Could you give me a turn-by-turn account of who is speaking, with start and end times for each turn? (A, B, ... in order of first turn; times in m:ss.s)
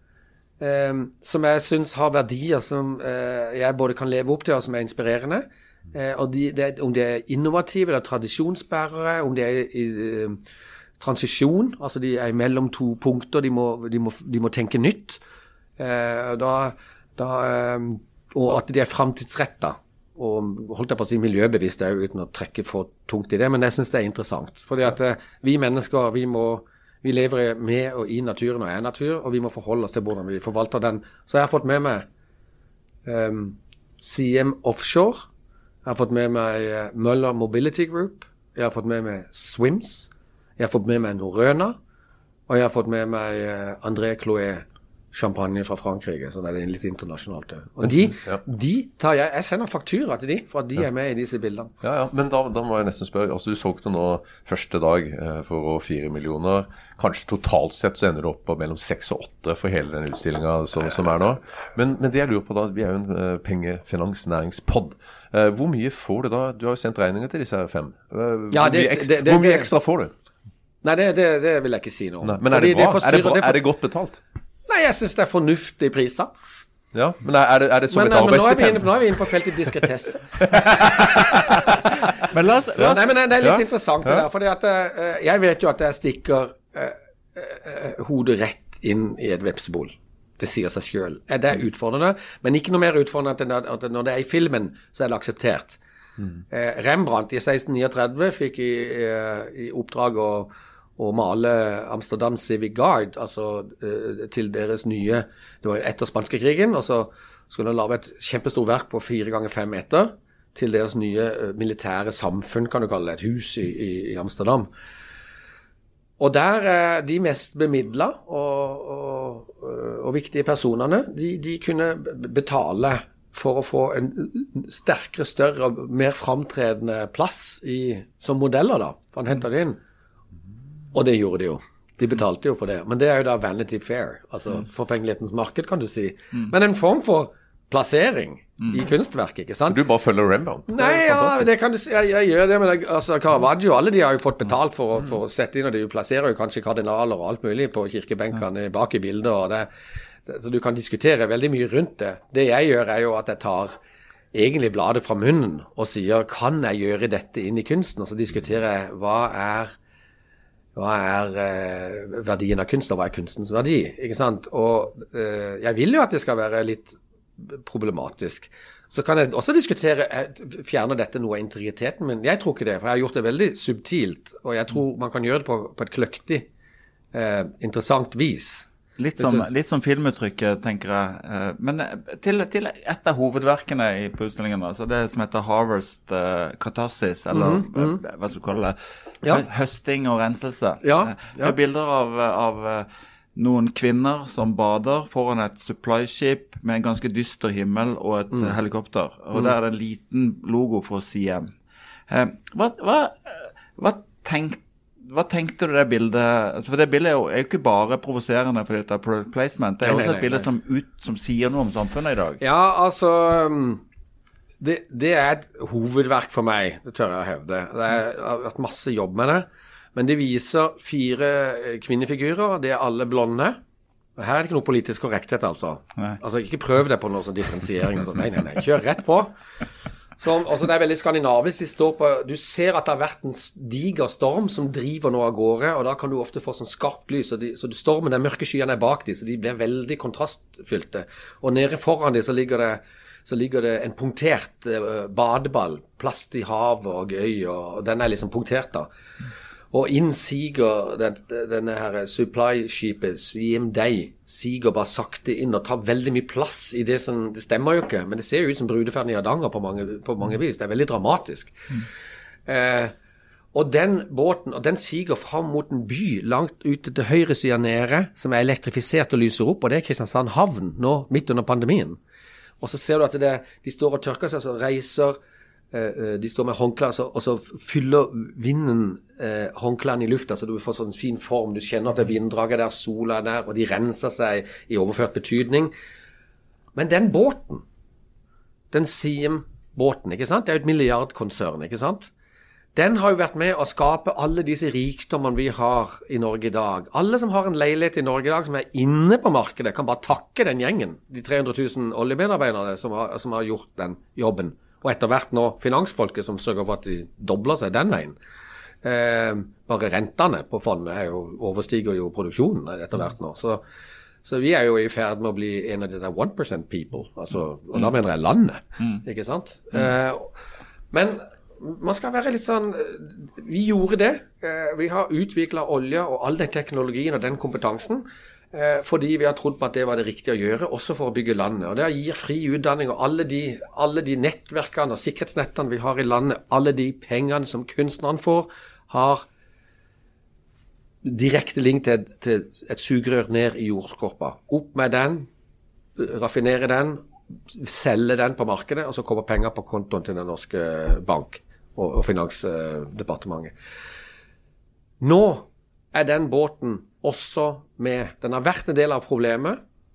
0:00.6-0:10.4 A
0:11.0-0:15.2 A
0:15.8-0:32.1 A
0:33.0-0:35.3 A
0:35.8-0:41.8 A
0:42.5-0:51.7 A
0:47.8-0:48.4 B
0:51.8-1:10.1 B
1:08.5-1:09.7 A
1:10.8-1:13.6 A
1:12.2-1:14.2 B
1:14.7-1:16.3 A
1:16.9-1:19.0 B
1:17.9-1:21.2 A
1:22.3-1:23.1 C
1:22.8-1:35.8 A
1:23.4-1:24.2 B
1:36.5-1:54.7 A
1:56.2-2:09.8 A
2:10.9-2:19.8 A
2:19.7-2:21.5 B
2:20.7-2:29.7 A
2:30.3-2:33.8 A
2:34.3-2:39.7 A
2:40.8-2:56.5 A
2:57.1-2:59.5 A
2:59.0-3:21.5 C
3:07.3-3:08.0 A
3:10.8-3:11.6 A
3:22.1-3:32.4 C
3:29.8-3:30.4 A
3:32.4-3:33.8 A
3:34.6-3:43.6 A
3:44.2-3:49.3 A
3:50.2-4:08.9 A
4:09.7-4:21.6 A
4:22.5-4:22.9 A
4:23.5-4:32.0 A
4:32.6-4:35.2 A
4:35.7-4:45.7 A
4:46.8-4:47.6 A
4:48.7-4:52.1 A
4:52.7-5:08.1 A
5:08.8-5:13.6 A
5:14.2-5:20.3 A
5:20.9-5:39.2 A
5:41.0-5:45.3 A
5:46.0-5:53.5 A
5:55.0-5:59.6 A